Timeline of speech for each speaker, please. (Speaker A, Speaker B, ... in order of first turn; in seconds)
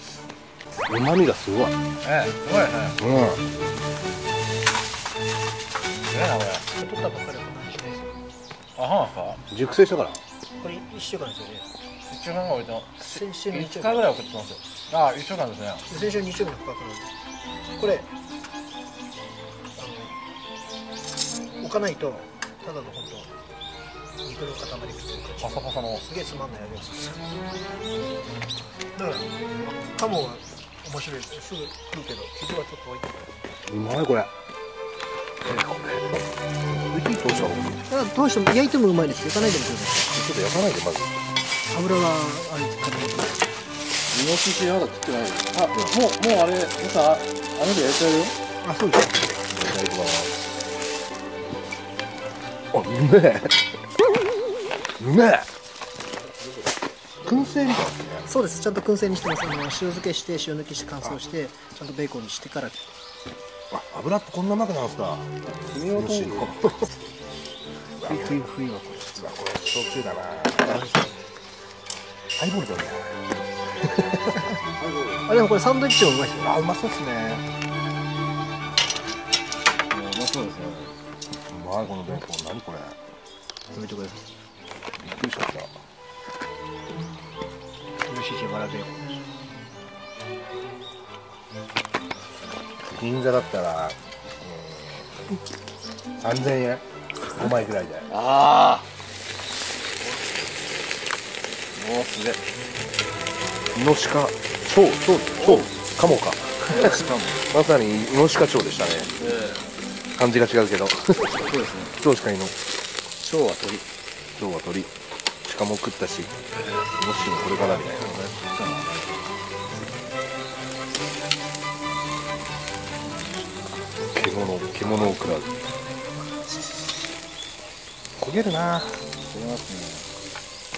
Speaker A: 0.9-1.8, 3.0-3.4, 9.5-10.2, 33.7-34.3, 35.5-36.2, 36.8-37.8, 40.1-41.1, 49.5-50.4, 52.7-53.6, 55.0-55.5, 57.2-58.3, 63.7-65.3, 65.9-66.9, 68.0-68.4, 69.2-70.8, 72.4-73.2, 73.8-74.2, 76.4-77.5, 81.5-83.0, 85.0-85.7, 92.9-95.2, 96.2-98.1, 103.8-109.1, 110.2-111.3, 112.0-112.6, 114.4-114.9, 115.4-116.3, 117.0-118.4, 124.1-125.6, 128.2-129.1
Speaker B: 2.0-3.0, 6.1-6.7, 8.8-9.4, 12.1-15.8, 25.4-26.0, 44.1-48.4, 65.5-66.6, 74.8-75.2, 79.9-80.9, 98.1-98.9, 101.7-102.4, 105.4-105.7, 106.7-107.4, 109.2-109.7, 111.4-112.0, 113.2-113.8, 116.6-119.0, 129.2-130.1
Speaker C: 6.8-8.1, 10.6-11.7, 13.1-14.1, 15.9-17.1, 17.8-18.1, 19.8-20.2, 21.6-23.3, 24.2-27.2, 28.9-33.1, 37.9-40.1, 41.7-43.5, 48.6-49.4, 58.3-62.9, 68.0-69.1, 70.6-71.1, 75.3-76.6, 83.7-84.2, 88.1-89.4